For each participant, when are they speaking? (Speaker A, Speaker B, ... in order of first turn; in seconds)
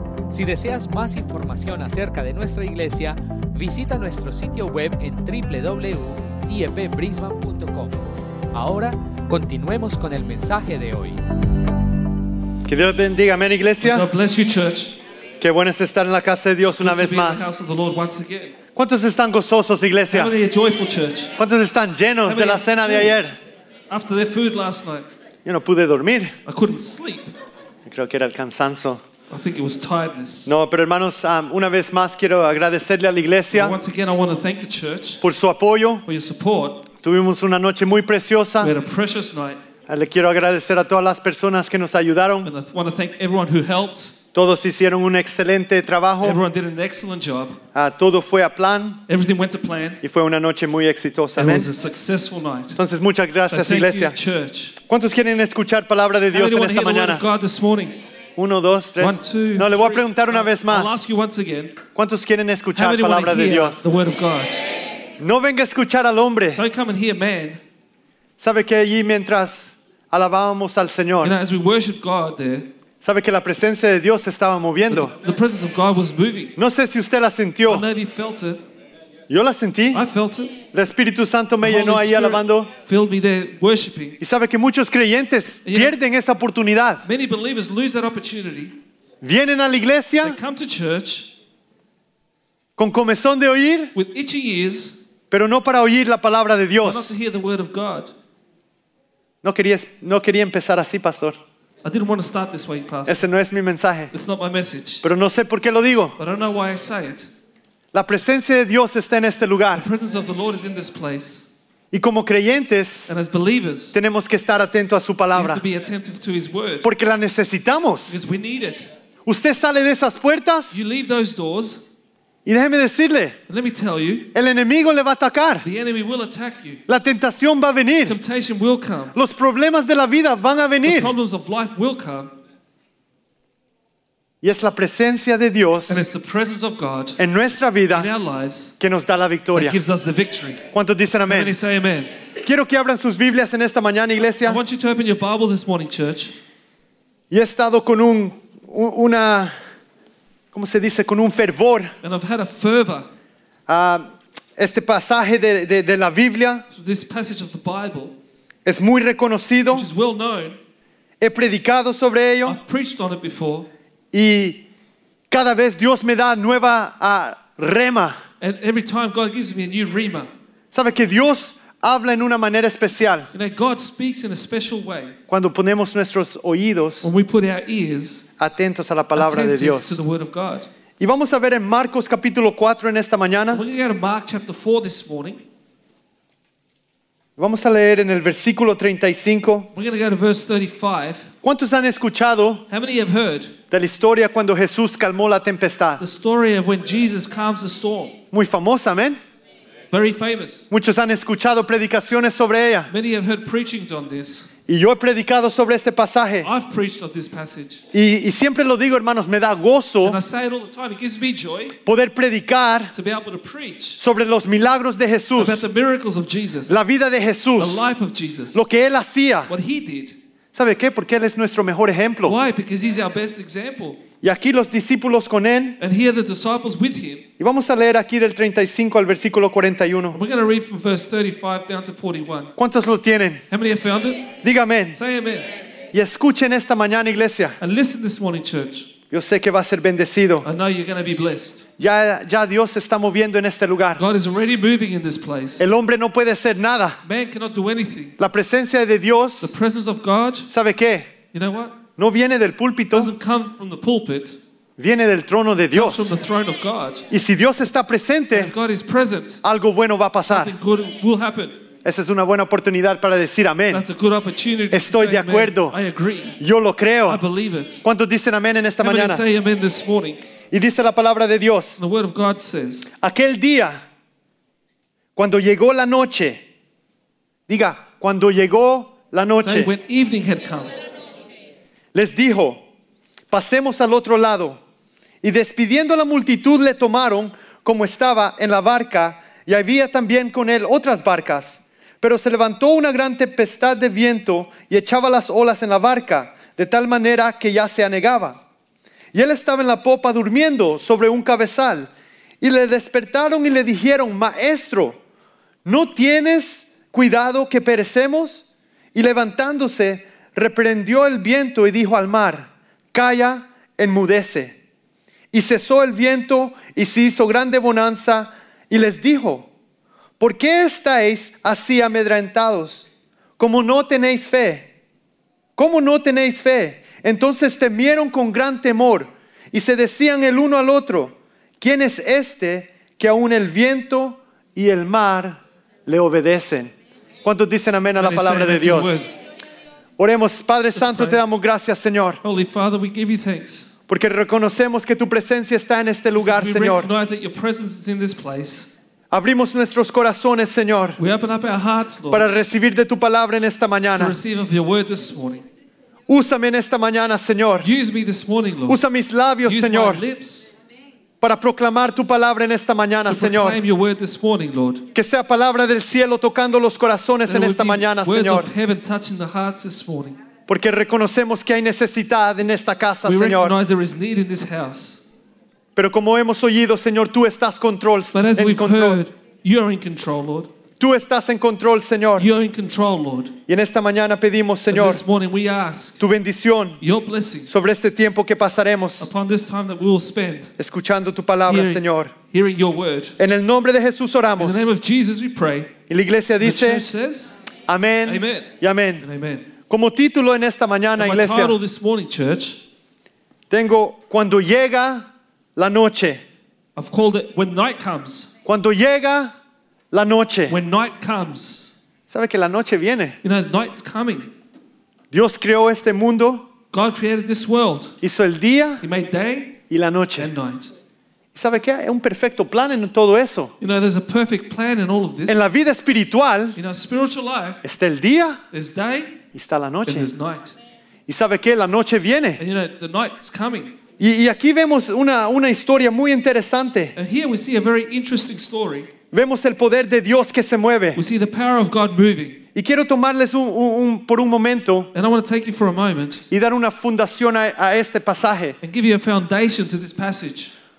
Speaker A: 0.3-11.2
Speaker B: 12.7-14.1, 15.4-17.5, 18.8-20.3, 21.4-23.3, 25.4-26.4, 27.9-29.0, 30.5-33.8, 35.2-36.0, 37.0-38.7, 39.9-42.5, 44.3-46.4, 47.7-49.0, 50.0-51.7, 52.8-54.2, 54.9-57.2, 58.4-61.0, 62.0-63.8, 65.2-66.6, 68.4-71.4, 73.0-75.1, 76.6-77.9, 79.3-80.0, 80.7-82.7, 84.2-87.0, 89.2-90.4, 92.8-93.9, 95.3-97.1, 99.4-101.4, 103.1-104.1, 105.0-106.2, 107.9-109.9, 111.9-113.1, 113.9-115.6, 116.8-118.1, 119.2-120.7, 122.5-123.4, 124.3-125.7, 126.9-128.2, 129.1-131.1, 134.4-136.0, 137.2-138.1, 138.8-139.8, 140.7-141.6, 142.4-144.6, 147.3-149.6, 150.5-151.9, 153.7-154.1, 154.6-156.6, 158.7-159.9, 161.2-162.6, 164.1-164.6, 165.3-168.2, 170.7-173.3, 175.3-177.1, 178.4-180.0, 181.0-183.6, 187.4-189.7, 191.4-192.6, 193.7-196.0, 198.3-199.2, 200.7-202.9, 204.7-206.5, 207.9-210.2, 211.8-212.9, 214.0-215.7, 216.7-217.8, 218.5-219.5, 220.5-222.4, 224.2-225.8, 227.4-230.2, 232.6-233.4, 234.4-235.0, 235.9-237.6, 239.1-240.5, 241.8-244.0, 245.6-247.0, 248.2-249.5, 250.5-251.1, 252.0-253.1, 254.8-256.1, 257.1-258.5, 259.4-260.6, 261.8-263.9, 264.7-265.8, 266.4-267.2, 267.8-269.2, 270.5-271.8, 273.0-273.8, 275.2-276.4, 277.5-279.7, 281.9-282.6, 283.3-284.6, 285.2-298.4, 299.1-301.9, 302.4-305.0, 305.6-308.4, 308.9-314.6, 315.3-319.5, 320.2-322.9, 323.4-324.7, 325.6-339.0, 340.0-342.2, 343.9-346.9, 349.1-351.0, 352.1-354.2, 356.1-357.7, 358.7-360.0, 361.2-363.6, 364.9-368.5, 370.5-373.6, 375.8-379.0, 380.8-382.3, 383.5-385.0, 386.0-386.8, 387.5-389.1, 390.6-392.1, 393.2-394.7, 395.9-396.9, 397.7-399.1, 399.7-401.6, 403.5-406.2, 408.4-409.3, 409.9-410.6, 412.1-413.2, 415.1-416.5, 418.0-418.8, 419.7-420.3, 421.3-423.5, 425.3-426.6, 427.6-428.4, 429.3-430.1, 431.1-432.4, 434.0-437.0, 439.1-441.0, 442.6-444.9, 446.3-448.6
Speaker C: 13.8-15.0, 16.6-18.6, 20.1-21.4, 22.2-23.2, 23.9-25.1, 26.5-27.3, 29.3-30.5, 33.5-35.2, 36.0-36.9, 38.6-39.6, 42.4-44.2, 46.2-47.6, 49.1-50.0, 51.4-52.8, 53.5-54.8, 56.3-58.0, 59.0-61.8, 62.8-64.7, 66.6-67.6, 71.2-72.7, 74.9-76.5, 77.7-78.6, 79.9-80.6, 81.6-84.2, 85.7-86.0, 87.0-88.8, 90.2-91.3, 94.0-95.0, 96.8-98.1, 101.8-103.3, 104.1-105.0, 106.2-107.3, 109.8-111.5, 113.1-114.0, 115.3-116.9, 118.1-118.9, 120.7-121.8, 123.5-124.3, 125.6-126.8, 128.1-129.1, 130.8-132.3, 135.9-137.2, 137.9-138.8, 139.5-140.6, 141.3-142.1, 144.4-146.3, 152.0-153.1, 156.7-158.2, 159.7-160.6, 162.4-163.7, 168.4-170.3, 173.3-175.2, 177.0-178.3, 179.2-180.7, 183.5-185.4, 189.7-191.3, 192.7-193.5, 196.0-198.2, 199.9-200.7, 202.9-204.5, 206.4-207.8, 210.0-211.8, 212.9-214.0, 215.4-216.8, 217.6-218.7, 219.5-220.2, 222.2-224.0, 225.8-227.3, 230.1-232.5, 233.5-234.3, 234.9-235.5, 237.6-238.9, 240.4-241.7, 244.0-245.7, 247.1-248.2, 249.4-250.5, 251.3-251.8, 252.9-254.4, 255.7-257.1, 258.3-259.4, 260.3-261.6, 263.7-266.4, 267.1-267.9, 268.8-270.2, 271.8-272.9, 279.4-280.7, 338.0-339.1, 340.8-341.2, 342.2-343.7, 346.2-348.7, 351.0-352.3, 353.9-355.4, 357.6-358.8, 359.4-360.5, 363.1-364.9, 367.3-370.2, 373.0-375.0, 378.1-380.5, 382.2-383.4, 384.7-386.0, 386.8-387.5, 389.0-390.5, 391.5-393.2, 394.4-395.7, 396.4-397.4, 398.1-399.5, 401.0-402.6, 406.8-408.3, 410.5-411.7, 413.2-414.3, 416.7-418.0, 418.8-419.6, 420.2-420.7, 423.6-425.4, 426.6-427.6, 428.5-429.2, 429.9-430.6, 432.4-433.8, 437.0-438.9, 440.9-442.4, 444.9-446.2, 448.6-450.5